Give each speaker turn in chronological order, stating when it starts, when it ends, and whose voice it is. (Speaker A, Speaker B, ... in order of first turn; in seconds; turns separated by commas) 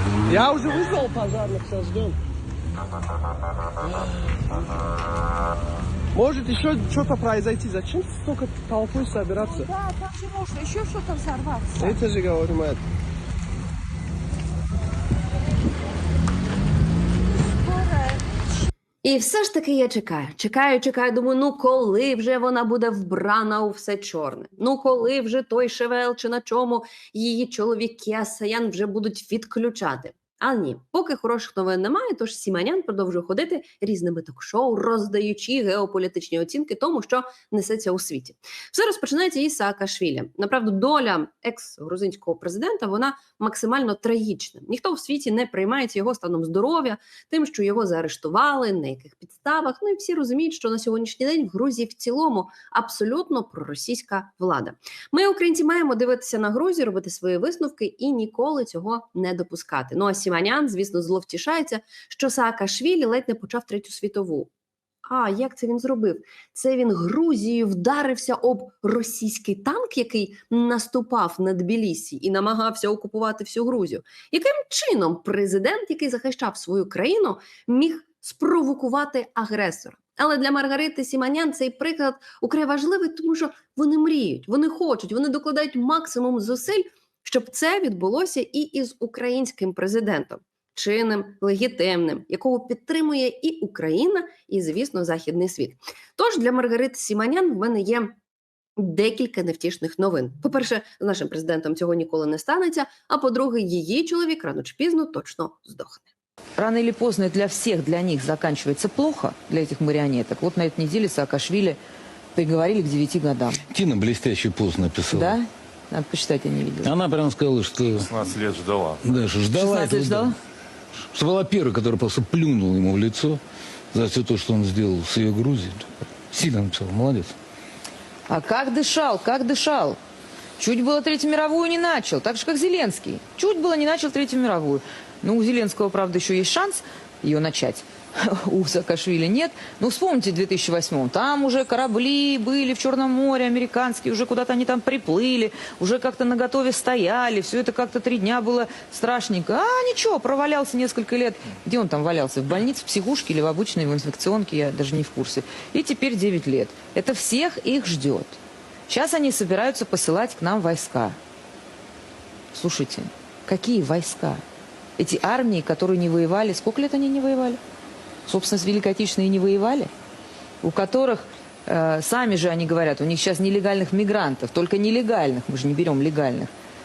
Speaker A: 0.3-2.1, Speaker A: 6.1-9.6, Speaker B: 9.4-11.9, Speaker A: 11.8-12.8, Speaker C: 19.0-64.5, Speaker C: 65.1-98.2, Speaker C: 98.8-106.1, Speaker D: 106.6-111.8, Speaker D: 112.3-113.6, Speaker E: 113.7-115.3, Speaker D: 115.1-117.0, Speaker E: 116.8-120.3, Speaker D: 119.5-120.3, Speaker E: 121.1-123.4, Speaker E: 123.9-127.3, Speaker D: 128.3-130.0, Speaker D: 130.6-161.2, Speaker D: 162.5-164.4, Speaker D: 165.0-167.6, Speaker D: 168.2-169.9, Speaker D: 170.6-176.5